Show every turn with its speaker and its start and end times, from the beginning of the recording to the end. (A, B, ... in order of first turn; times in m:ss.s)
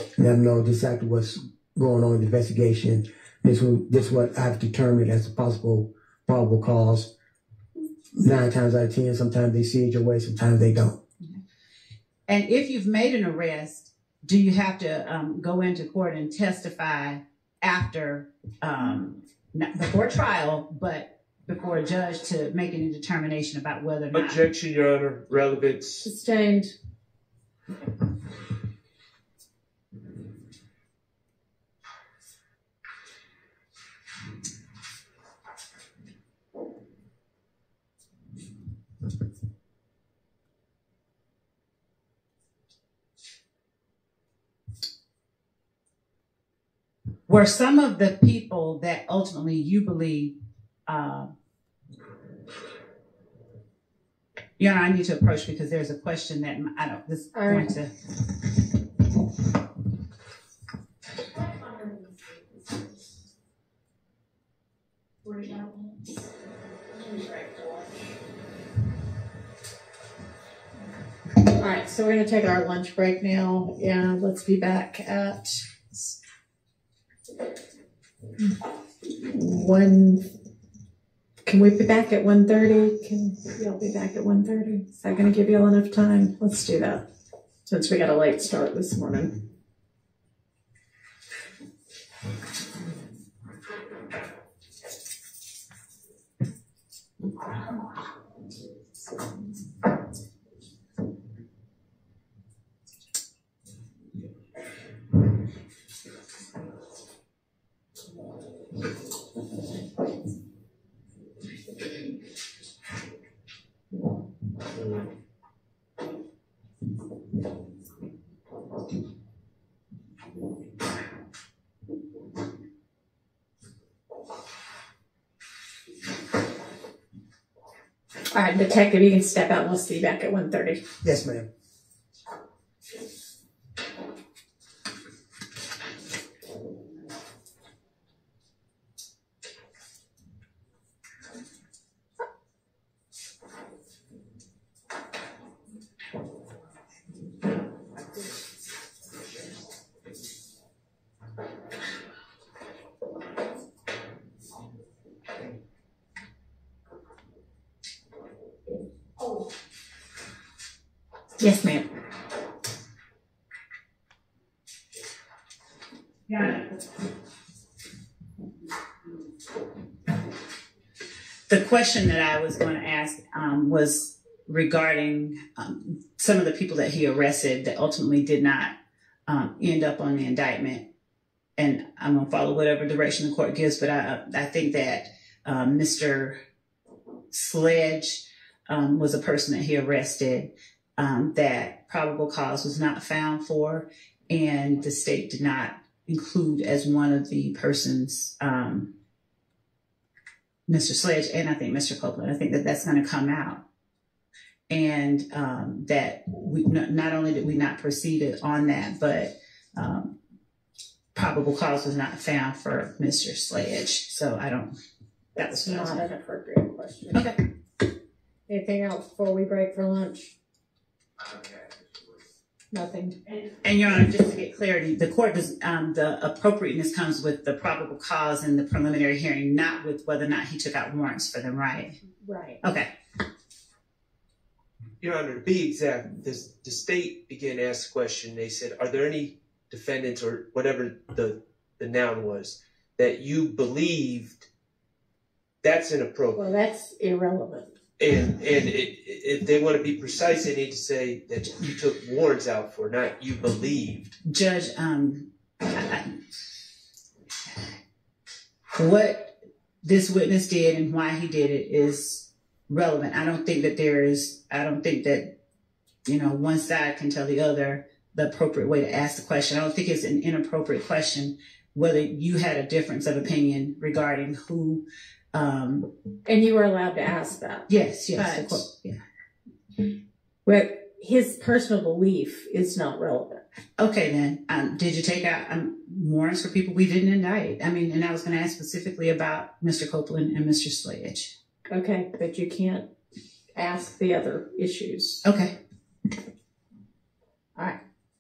0:00.2-0:07.1 A
0:08.2-0:11.0 A
0:12.3-0:24.4 B
0:24.1-0:26.1 C
0:26.0-0:26.7 D
0:47.3-0:50.3 B
0:50.9-0:51.3 B
0:54.6-0:57.9 B
0:57.3-0:57.7 D
1:05.3-1:05.9 D
1:07.0-1:07.8 D
1:11.4-1:16.1 D
1:19.2-1:20.3 D
1:21.4-1:27.0 D
1:27.7-1:29.4 D
2:08.3-2:10.8 D
2:11.0-2:11.5 A
2:41.4-2:41.9 D
2:51.5-2:58.7 B
2:59.3-3:00.9 B
3:01.6-3:06.4 B
3:07.3-3:18.9 B
3:20.7-3:23.6 B
3:24.7-3:30.1 B
3:31.1-3:34.7 B
3:35.4-3:36.1 B
3:35.5-3:37.2 D
3:37.1-3:37.4 B
3:38.5-3:40.3 D
3:42.7-3:43.2 D
3:43.6-3:51.9 B
3:52.2-3:52.6 D
3:52.6-3:52.9 B
3:55.0-4:04.4 C
4:05.6-4:06.4 C
4:06.4-4:07.7 D
4:08.0-4:14.2 C
4:14.2-4:16.1 B
4:18.8-4:25.3 B
4:26.0-4:35.9 B
4:36.3-4:38.6 D
4:37.7-4:39.0 B
4:40.4-4:43.4 D
4:43.8-4:51.3 B
4:51.7-4:52.9 D
4:53.6-4:55.2 D
4:55.2-4:55.6 B